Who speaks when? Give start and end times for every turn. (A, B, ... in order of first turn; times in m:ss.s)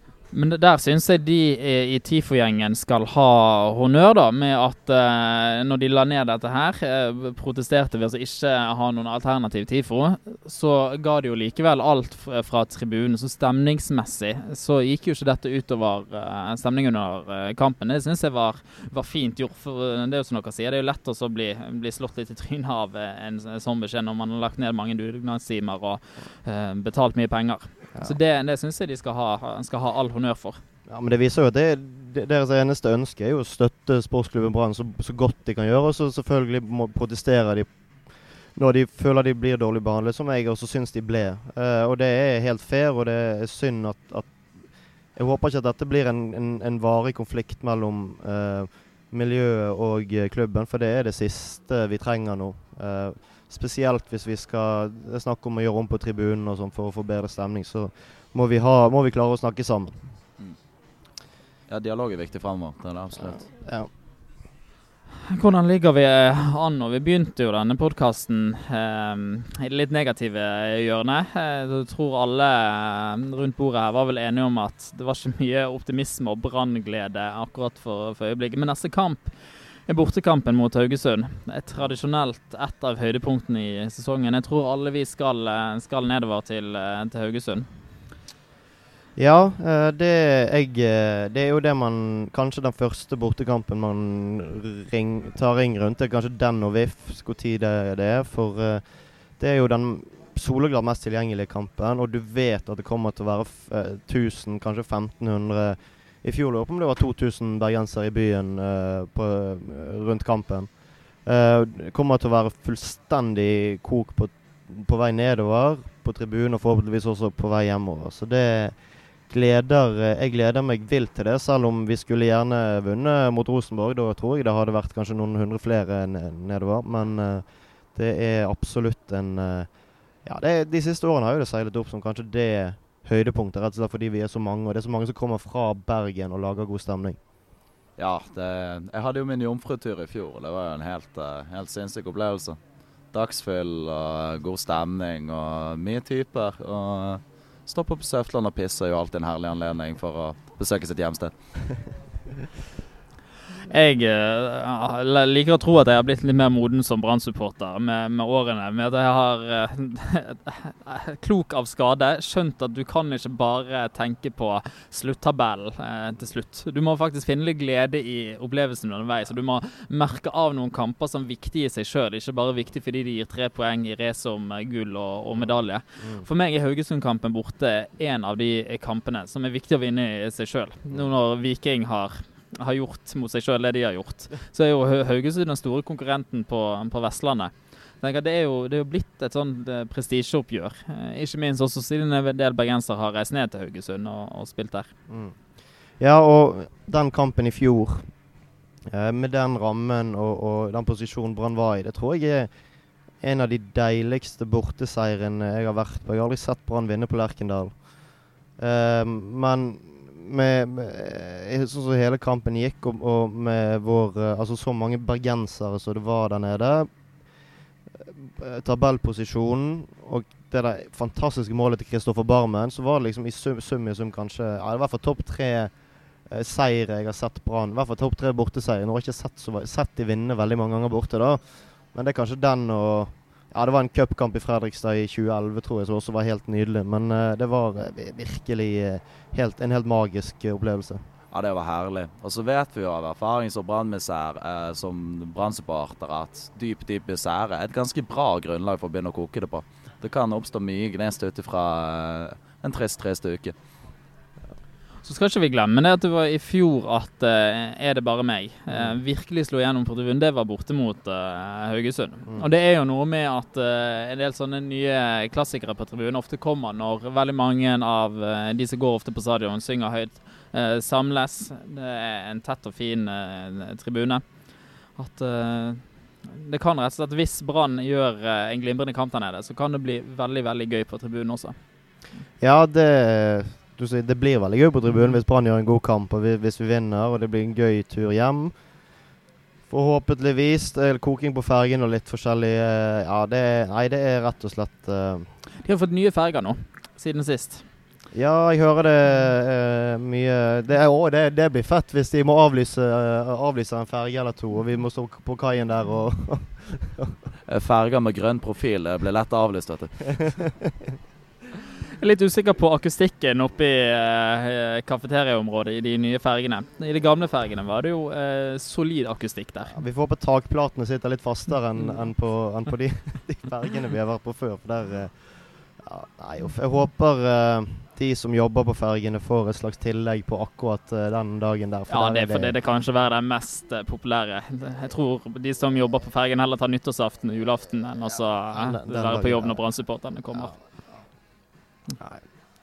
0:00.3-0:30.6 A
0:30.9-0:37.7 B
0:38.6-0:44.4 B
0:45.1-1:00.0 B
1:01.7-1:03.4 C
1:03.2-1:03.9 B
1:05.3-1:19.3 A
1:19.9-1:27.7 A
1:29.2-1:38.8 B
1:39.4-1:50.7 B
1:51.2-1:58.8 B
1:59.3-2:09.7 B
2:10.2-2:17.2 B
2:18.0-2:22.6 C
2:23.1-2:31.3 C
2:33.7-3:14.9 A
2:55.4-2:56.2 B
3:15.1-3:15.4 B
3:16.0-3:18.1 B
3:18.9-3:22.5 B
3:23.2-3:27.8 B
3:28.6-3:36.9 B
3:38.1-3:45.7 B
3:46.3-3:51.4 B
3:51.9-4:01.0 B
4:01.3-4:13.5 C
4:15.0-4:34.2 A
4:18.7-4:19.0 B
4:35.0-4:41.6 A
4:42.4-4:48.5 B
4:49.7-4:55.3 B
4:55.6-4:57.6 A
4:58.1-5:07.2 B
5:07.5-5:10.4 C
5:12.0-5:19.8 A
5:19.7-5:32.5 B
5:31.9-5:40.6 A
5:38.5-5:39.6 B